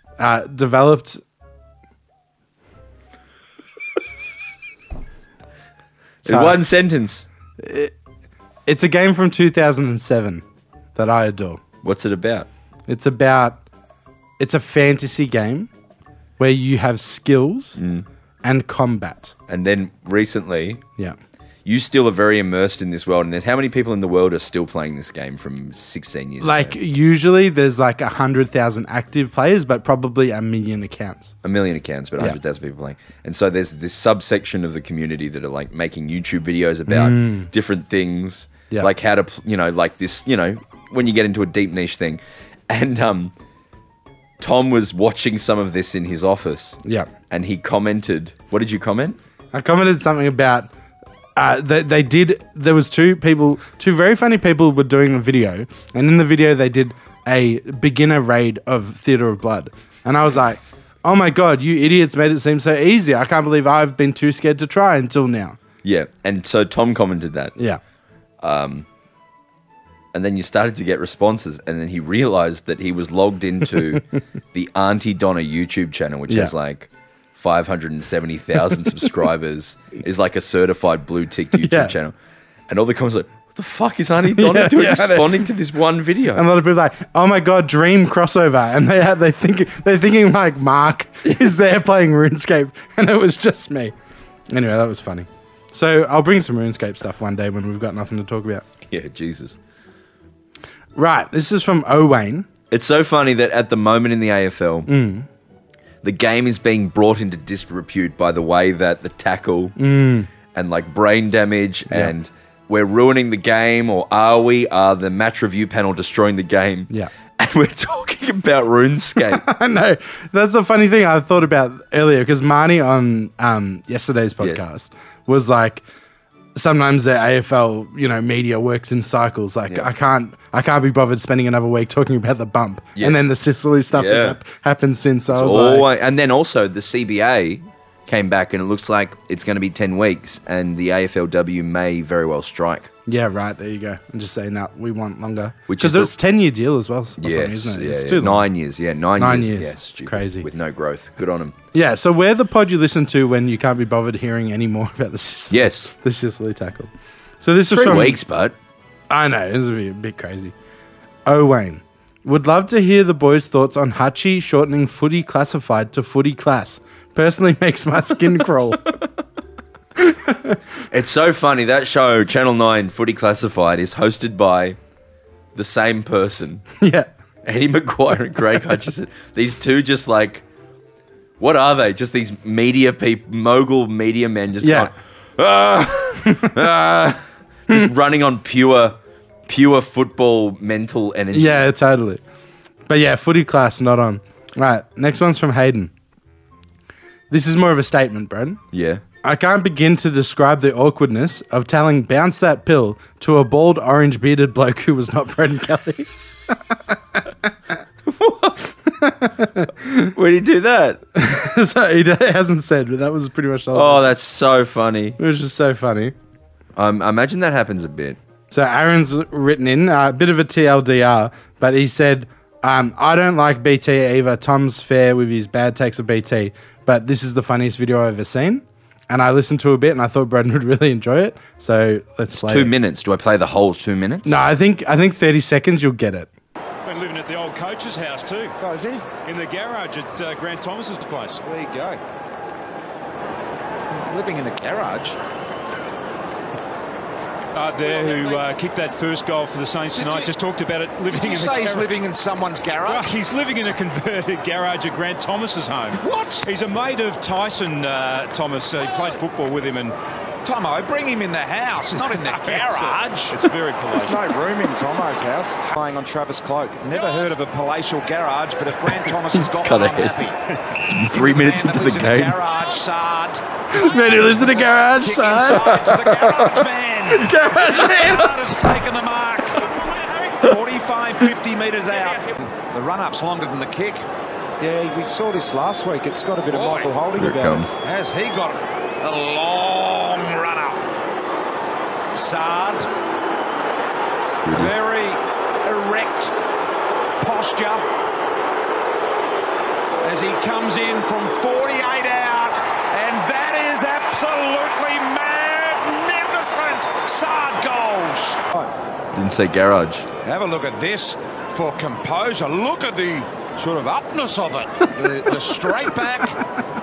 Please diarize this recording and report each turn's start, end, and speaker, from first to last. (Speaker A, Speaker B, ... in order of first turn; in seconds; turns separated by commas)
Speaker A: 0.2-1.2, Speaker B: 6.2-7.3, Speaker A: 6.2-6.6, Speaker A: 7.6-7.9, Speaker A: 8.7-10.4, Speaker A: 10.9-11.6, Speaker B: 11.8-12.5, Speaker A: 12.9-13.6, Speaker A: 14.4-15.7, Speaker A: 16.4-17.8, Speaker B: 17.8-18.1, Speaker A: 18.4-19.3, Speaker B: 19.5-20.8, Speaker B: 21.6-26.8, Speaker A: 26.4-31.3, Speaker B: 31.4-43.3, Speaker A: 36.9-37.5, Speaker B: 44.4-46.8, Speaker A: 46.8-47.1, Speaker B: 47.3-49.2, Speaker A: 49.5-50.7, Speaker A: 51.4-65.6, Speaker B: 65.8-67.5, Speaker A: 67.5-67.8, Speaker B: 68.4-68.8, Speaker B: 70.1-82.1, Speaker A: 76.3-76.5, Speaker A: 81.6-81.9, Speaker B: 82.7-86.4, Speaker A: 84.3-85.5, Speaker A: 86.3-93.9, Speaker A: 94.5-98.6, Speaker B: 98.9-99.6, Speaker A: 101.0-102.5, Speaker B: 102.7-104.9, Speaker A: 104.9-105.3, Speaker B: 106.0-109.8, Speaker A: 109.8-110.3, Speaker B: 110.5-119.4, Speaker A: 111.9-112.1, Speaker A: 119.2-125.8, Speaker A: 126.5-135.9, Speaker B: 132.9-133.3, Speaker B: 133.9-134.4, Speaker B: 135.3-142.9, Speaker A: 143.1-148.5, Speaker B: 145.7-146.1, Speaker B: 147.2-151.5, Speaker A: 149.2-150.5, Speaker A: 151.7-156.9, Speaker B: 155.5-155.9, Speaker A: 157.4-158.2, Speaker B: 157.7-158.5, Speaker A: 159.1-160.5, Speaker A: 161.2-168.9, Speaker A: 169.9-170.6, Speaker B: 170.9-174.8, Speaker B: 175.5-176.6, Speaker A: 176.8-177.1, Speaker B: 177.4-180.4, Speaker B: 181.4-188.9, Speaker A: 184.6-184.9, Speaker A: 186.2-186.7, Speaker B: 189.5-191.7, Speaker A: 191.3-192.2, Speaker A: 192.9-195.9, Speaker A: 197.3-198.6, Speaker B: 198.7-199.0, Speaker A: 199.2-207.3, Speaker B: 208.1-208.7, Speaker A: 208.9-210.1, Speaker B: 209.8-211.0, Speaker A: 211.1-214.1, Speaker B: 213.7-215.2, Speaker A: 215.2-216.1, Speaker B: 216.8-218.2, Speaker A: 218.5-232.7, Speaker B: 232.3-234.4, Speaker A: 234.2-236.3, Speaker C: 236.8-238.5, Speaker D: 238.6-239.0, Speaker E: 238.7-239.0, Speaker C: 239.2-241.4, Speaker D: 241.4-242.0, Speaker D: 243.9-245.2, Speaker C: 247.5-251.9, Speaker D: 247.8-248.4, Speaker D: 249.9-250.3, Speaker D: 251.1-253.1, Speaker C: 252.9-259.9, Speaker D: 256.0-256.5, Speaker D: 260.4-263.4, Speaker C: 262.1-264.3, Speaker E: 263.9-266.8, Speaker D: 266.8-270.4, Speaker B: 269.3-270.2, Speaker B: 270.8-272.4, Speaker D: 270.9-273.4, Speaker A: 273.7-275.7, Speaker D: 275.0-279.6, Speaker B: 275.4-278.4, Speaker A: 277.3-278.0, Speaker D: 280.4-284.1, Speaker E: 284.6-287.7, Speaker D: 286.5-286.9, Speaker B: 287.1-287.7, Speaker D: 287.8-290.9, Speaker D: 292.1-292.9, Speaker B: 294.4-294.8, Speaker D: 294.5-296.3, Speaker D: 297.2-297.8, Speaker D: 300.0-308.7, Speaker B: 309.1-310.1, Speaker D: 310.2-316.4